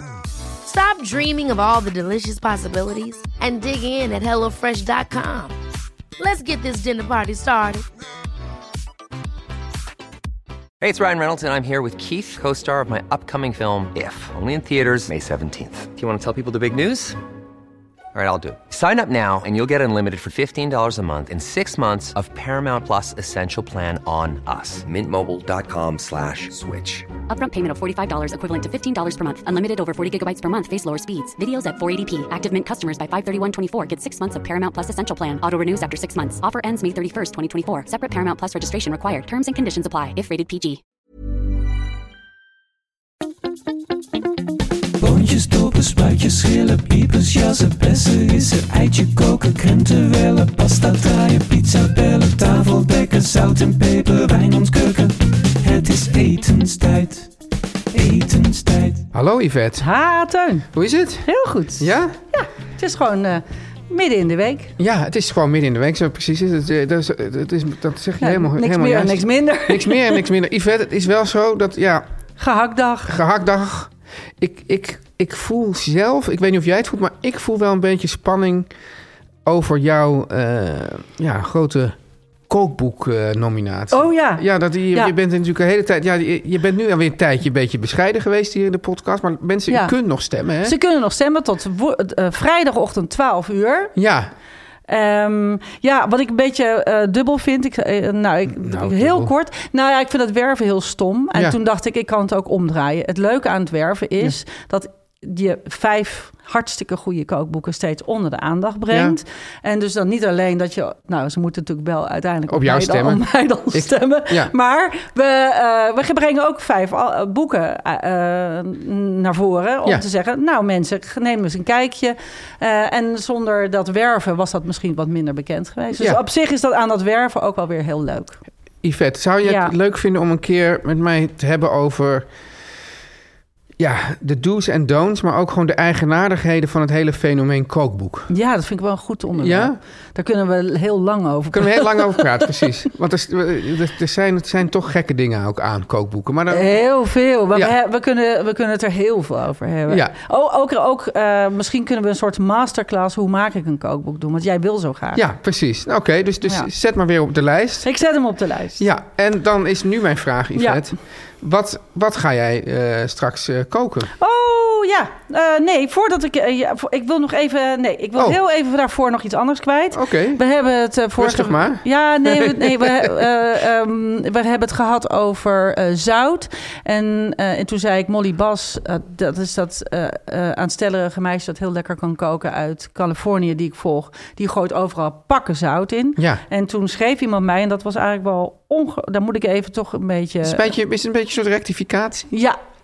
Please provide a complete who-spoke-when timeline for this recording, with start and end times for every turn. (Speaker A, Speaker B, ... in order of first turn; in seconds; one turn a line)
Speaker A: 0.6-5.6
Speaker A: 6.2-7.8
Speaker B: 10.8-17.2
Speaker B: 18.1-27.1
Speaker C: 27.3-40.8
Speaker D: 45.0-57.3
Speaker D: 57.9-59.0
Speaker E: 59.1-59.9
Speaker F: 59.8-60.7
Speaker E: 60.7-62.1
Speaker F: 61.2-64.7
Speaker E: 64.8-72.0
Speaker F: 68.2-70.2
Speaker F: 72.4-73.2
Speaker E: 73.1-78.7
Speaker E: 79.4-82.0
Speaker E: 82.5-90.8
Speaker F: 83.9-85.1
Speaker F: 89.7-89.9
Speaker F: 90.6-93.9
Speaker E: 94.0-94.3
Speaker F: 94.9-128.4
Speaker E: 98.5-99.3
Speaker E: 108.9-109.2
Speaker E: 112.5-114.5
Speaker E: 128.8-132.3
Speaker F: 129.4-129.7
Speaker E: 133.8-138.3
Speaker F: 138.3-142.6
Speaker E: 139.4-139.8
Speaker E: 141.5-146.7
Speaker F: 146.5-155.2
Speaker E: 149.9-150.1
Speaker E: 155.1-157.9
Speaker F: 157.8-158.8
Speaker E: 158.8-164.1
Speaker F: 160.6-160.8
Speaker F: 164.2-190.7
Speaker E: 169.9-170.4
Speaker E: 171.2-173.1
Speaker E: 190.4-192.3
Speaker F: 192.3-192.6